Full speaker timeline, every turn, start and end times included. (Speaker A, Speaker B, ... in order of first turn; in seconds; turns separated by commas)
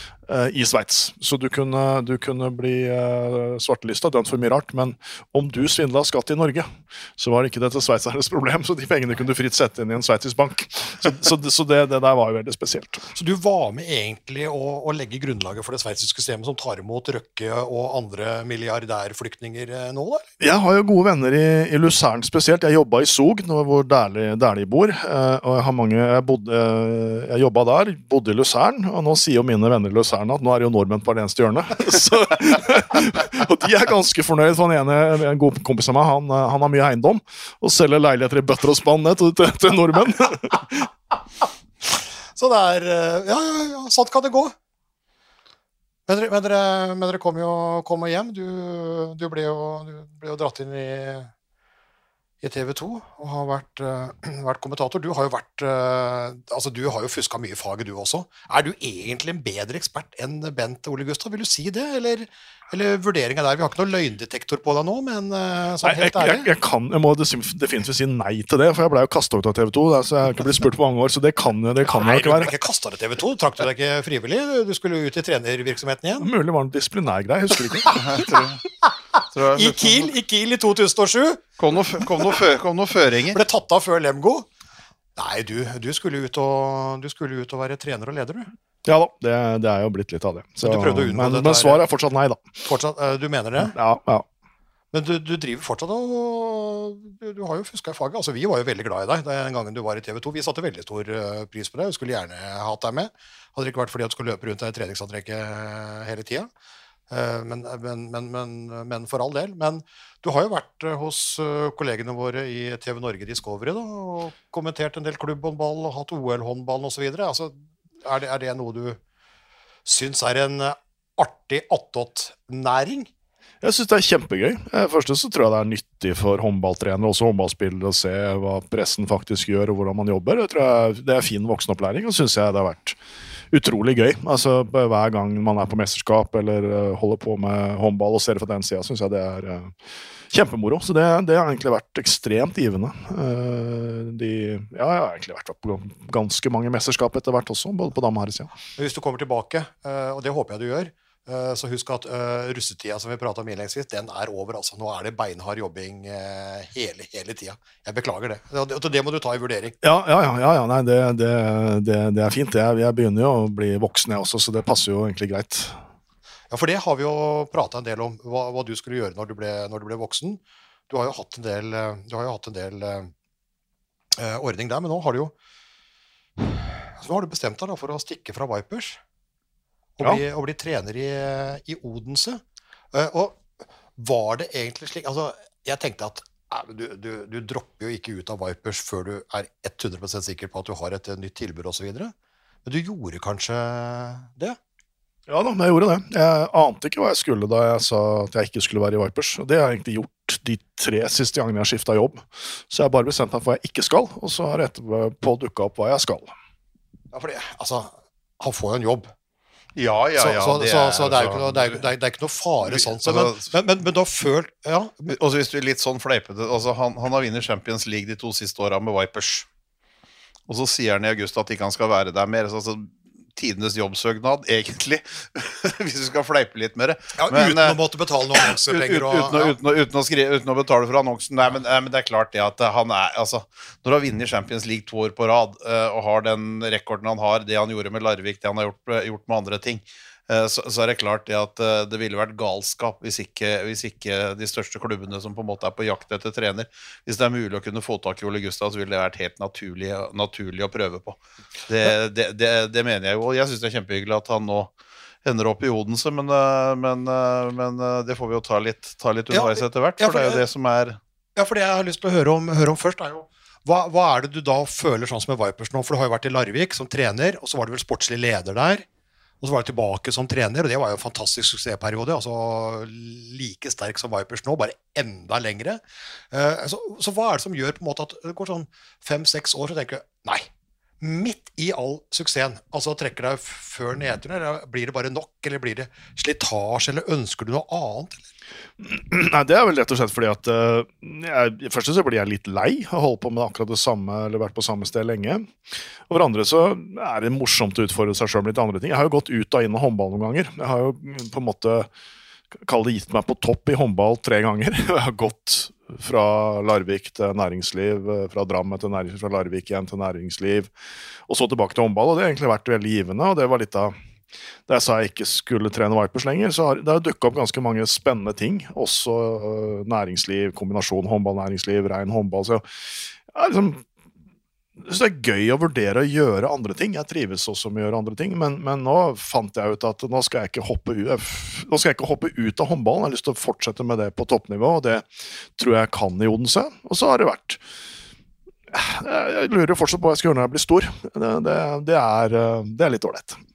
Speaker A: 0.3-13.1, Speaker B: 13.1-20.3, Speaker A: 20.4-40.9, Speaker B: 42.4-44.5, Speaker B: 46.1-51.3, Speaker B: 52.4-66.5, Speaker A: 65.8-72.5, Speaker B: 71.9-76.3, Speaker A: 76.2-78.0, Speaker B: 77.9-78.3, Speaker C: 78.0-78.6, Speaker C: 79.3-80.1, Speaker B: 79.5-81.4, Speaker C: 81.6-83.4, Speaker B: 83.3-84.5, Speaker B: 85.2-88.5, Speaker A: 88.8-92.5, Speaker B: 90.6-91.8, Speaker B: 92.6-93.7, Speaker A: 93.7-94.2, Speaker B: 94.9-106.5, Speaker B: 107.1-119.0, Speaker B: 119.8-123.1, Speaker A: 123.6-133.0, Speaker A: 133.5-139.7, Speaker A: 140.3-148.5, Speaker B: 148.7-159.8, Speaker A: 159.8-165.8, Speaker B: 166.5-173.1, Speaker B: 174.1-175.3, Speaker B: 176.4-179.0, Speaker B: 180.0-182.4, Speaker B: 182.9-192.1, Speaker B: 192.6-194.6, Speaker A: 195.3-206.3, Speaker B: 207.1-209.1, Speaker C: 209.8-211.9, Speaker B: 210.2-215.1, Speaker C: 212.6-213.5, Speaker C: 215.1-219.4, Speaker C: 220.5-227.8, Speaker B: 227.2-229.5, Speaker C: 228.3-254.7, Speaker C: 255.2-261.0, Speaker B: 259.3-260.4, Speaker B: 261.4-268.9, Speaker B: 269.4-280.5, Speaker B: 281.0-288.2, Speaker A: 288.8-295.5, Speaker A: 296.1-301.9, Speaker A: 302.6-310.7, Speaker A: 311.3-313.9, Speaker A: 314.7-322.6, Speaker A: 323.3-323.8, Speaker A: 324.8-337.6, Speaker A: 338.7-343.4